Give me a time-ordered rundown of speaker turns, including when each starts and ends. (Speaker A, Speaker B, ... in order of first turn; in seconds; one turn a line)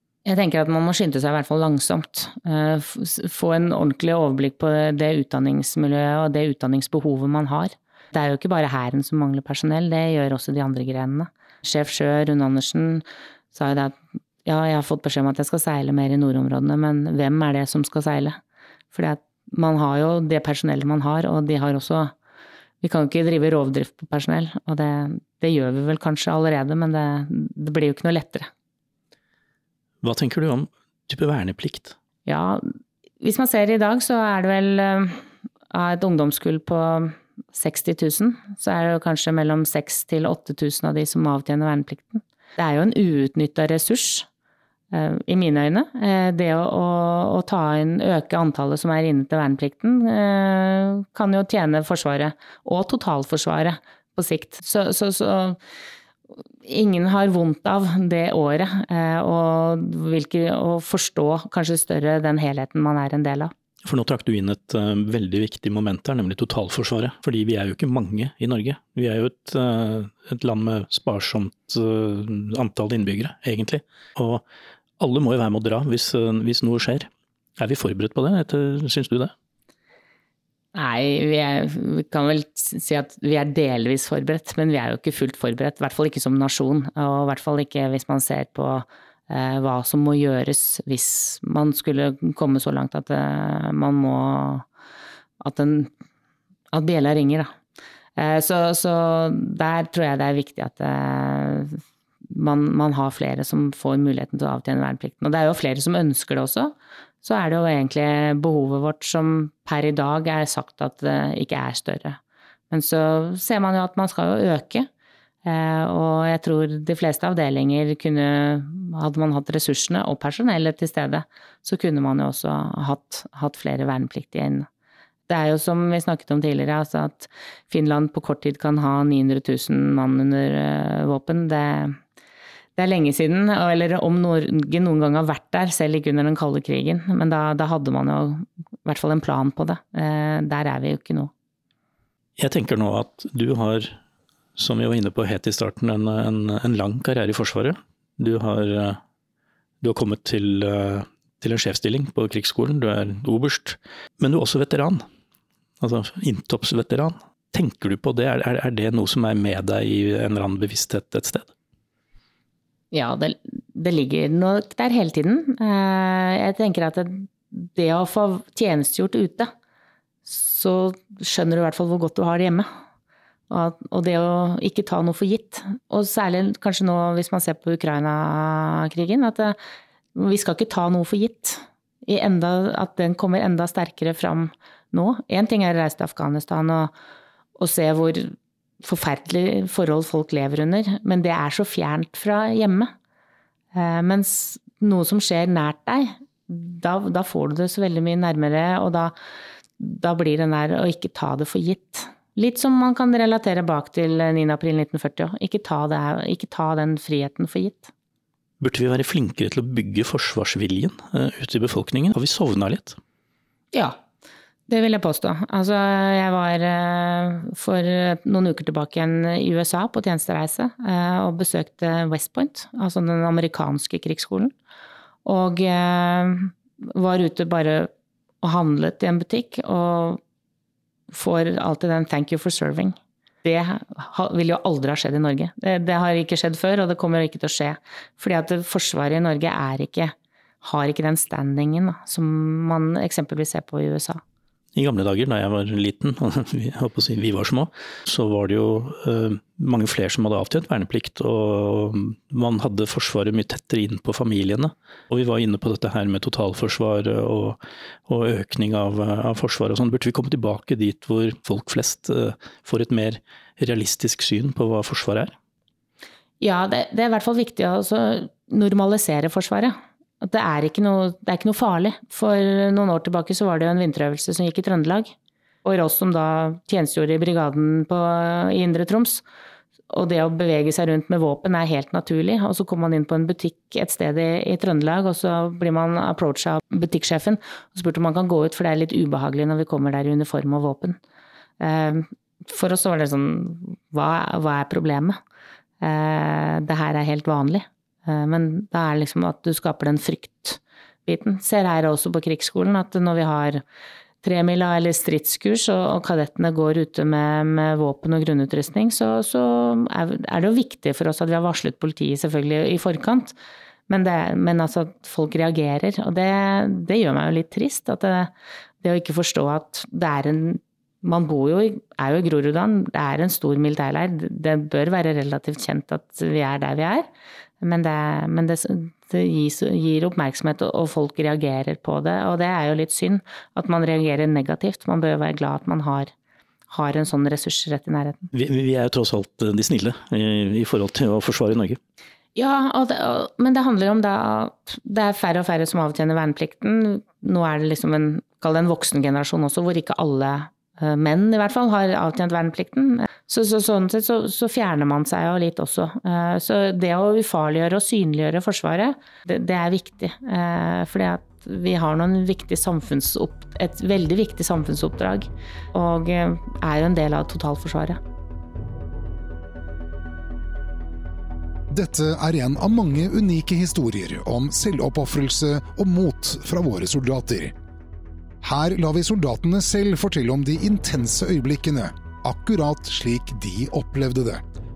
Speaker A: 0.2-18.4
Speaker A: 18.9-22.1
Speaker A: 22.8-28.5
Speaker B: 30.0-31.9
Speaker A: 32.3-32.6
Speaker A: 33.2-44.3
Speaker A: 44.9-55.6
Speaker A: 56.6-63.5
Speaker B: 63.8-74.4
Speaker B: 75.0-79.3
Speaker A: 80.8-94.7
Speaker A: 95.4-95.9
Speaker A: 96.7-97.5
Speaker A: 98.2-112.2
Speaker A: 112.7-114.9
Speaker A: 115.5-124.7
Speaker A: 125.3-132.0
Speaker A: 132.8-141.3
Speaker B: 142.4-144.0
Speaker B: 144.6-149.0
Speaker B: 149.8-155.0
Speaker B: 155.8-161.5
Speaker A: 162.9-169.5
Speaker A: 170.3-172.7
Speaker A: 173.5-179.6
Speaker A: 180.2-186.9
Speaker A: 187.6-192.9
Speaker A: 193.7-199.1
Speaker A: 199.8-207.9
Speaker B: 208.6-213.0
Speaker A: 213.7-214.0
Speaker A: 214.7-224.5
Speaker A: 225.2-227.9
Speaker A: 228.4-230.2
Speaker A: 231.1-244.2
Speaker B: 244.8-265.3
Speaker A: 266.4-275.1
Speaker A: 275.6-279.2
Speaker A: 279.9-291.0
Speaker A: 291.6-295.2
Speaker A: 295.8-303.6
Speaker A: 304.2-313.4
Speaker A: 313.9-327.1
Speaker A: 327.6-336.1
Speaker A: 336.7-338.3
Speaker B: 338.3-341.8
Speaker A: 342.4-368.0
Speaker C: 371.7-377.5
Speaker C: 378.4-384.4